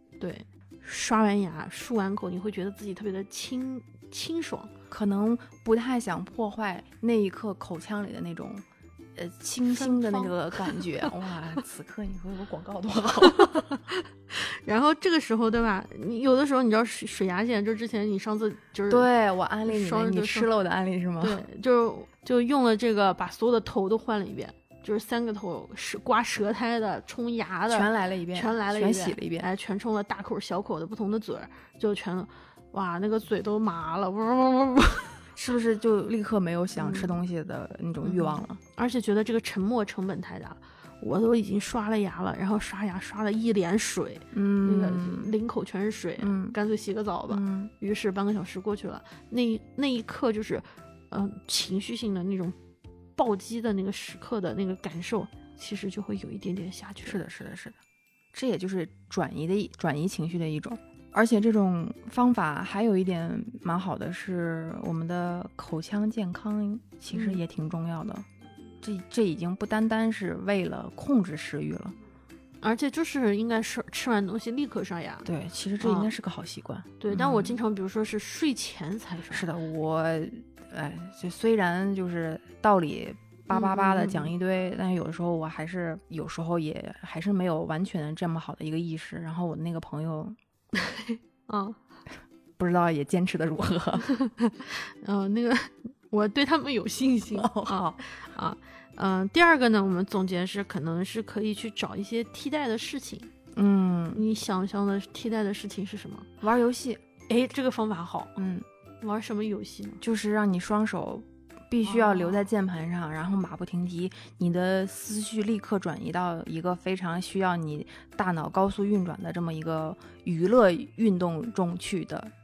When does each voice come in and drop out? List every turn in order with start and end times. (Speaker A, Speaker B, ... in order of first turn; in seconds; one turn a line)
Speaker A: 0.2-4.7
Speaker B: 4.9-13.7
Speaker A: 9.7-11.1
Speaker A: 13.2-19.1
Speaker B: 18.9-21.4
Speaker A: 19.6-20.5
Speaker A: 21.2-35.2
Speaker B: 27.7-29.5
Speaker B: 35.4-38.6
Speaker A: 36.8-37.2
Speaker A: 38.0-52.6
Speaker B: 44.3-45.3
Speaker B: 46.2-46.5
Speaker B: 47.3-47.7
Speaker A: 53.2-57.2
Speaker B: 57.0-57.8
Speaker B: 58.3-68.3
Speaker A: 67.1-67.4
Speaker B: 68.8-72.0
Speaker A: 72.6-75.3
Speaker B: 75.2-77.6
Speaker A: 75.8-76.1
Speaker A: 77.0-79.5
Speaker B: 79.3-90.4
Speaker A: 83.5-84.3
Speaker A: 90.8-91.8
Speaker B: 92.6-94.0
Speaker A: 94.0-103.3
Speaker B: 97.3-98.0
Speaker B: 103.5-104.2
Speaker A: 104.1-106.3
Speaker B: 106.4-107.0
Speaker A: 107.3-108.3
Speaker B: 108.4-108.7
Speaker A: 109.0-110.0
Speaker B: 110.0-122.3
Speaker A: 111.8-112.5